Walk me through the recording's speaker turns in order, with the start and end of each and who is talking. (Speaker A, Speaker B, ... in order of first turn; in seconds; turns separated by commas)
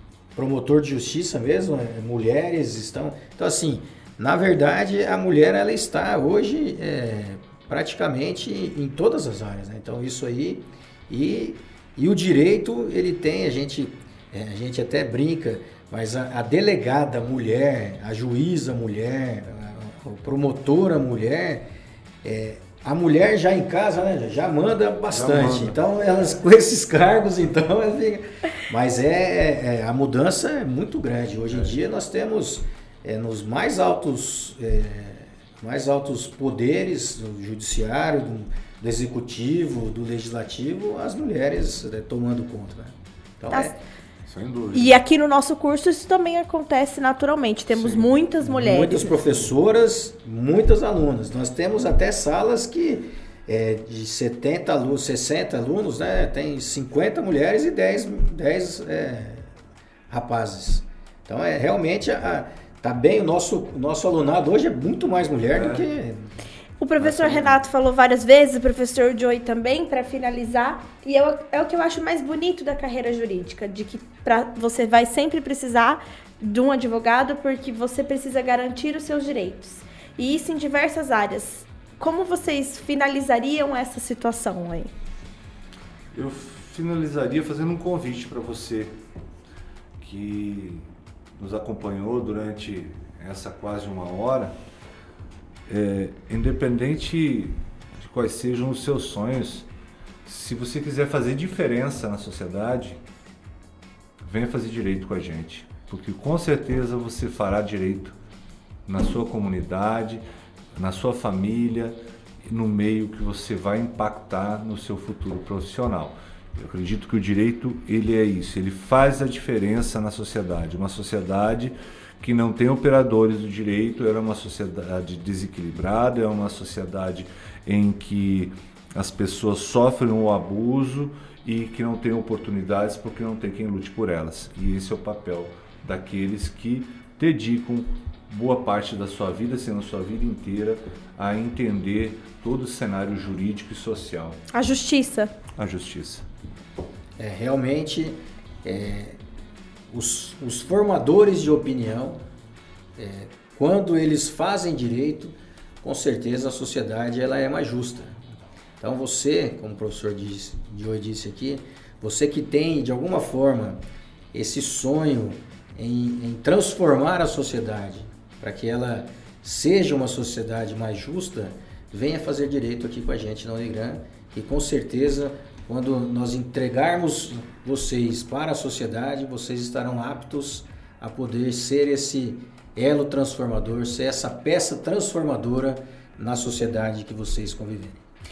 Speaker A: 0.3-21.7, Speaker A: 22.2-43.7, Speaker B: 25.1-25.8, Speaker C: 43.5-43.8, Speaker B: 44.2-45.0, Speaker C: 44.7-49.1, Speaker B: 47.7-48.1, Speaker A: 48.4-59.5, Speaker A: 60.1-66.2, Speaker B: 65.5-65.8, Speaker C: 66.8-84.9, Speaker A: 67.0-67.6, Speaker B: 86.1-88.9, Speaker B: 90.0-90.9, Speaker B: 91.4-94.5, Speaker B: 95.7-99.7, Speaker B: 100.2-103.0, Speaker B: 104.2-108.2, Speaker B: 108.9-110.2, Speaker B: 110.8-144.4, Speaker C: 144.5-145.3, Speaker B: 145.5-146.2, Speaker A: 147.2-149.2, Speaker A: 149.9-152.2, Speaker A: 153.0-158.2, Speaker A: 158.8-163.8, Speaker A: 164.3-188.0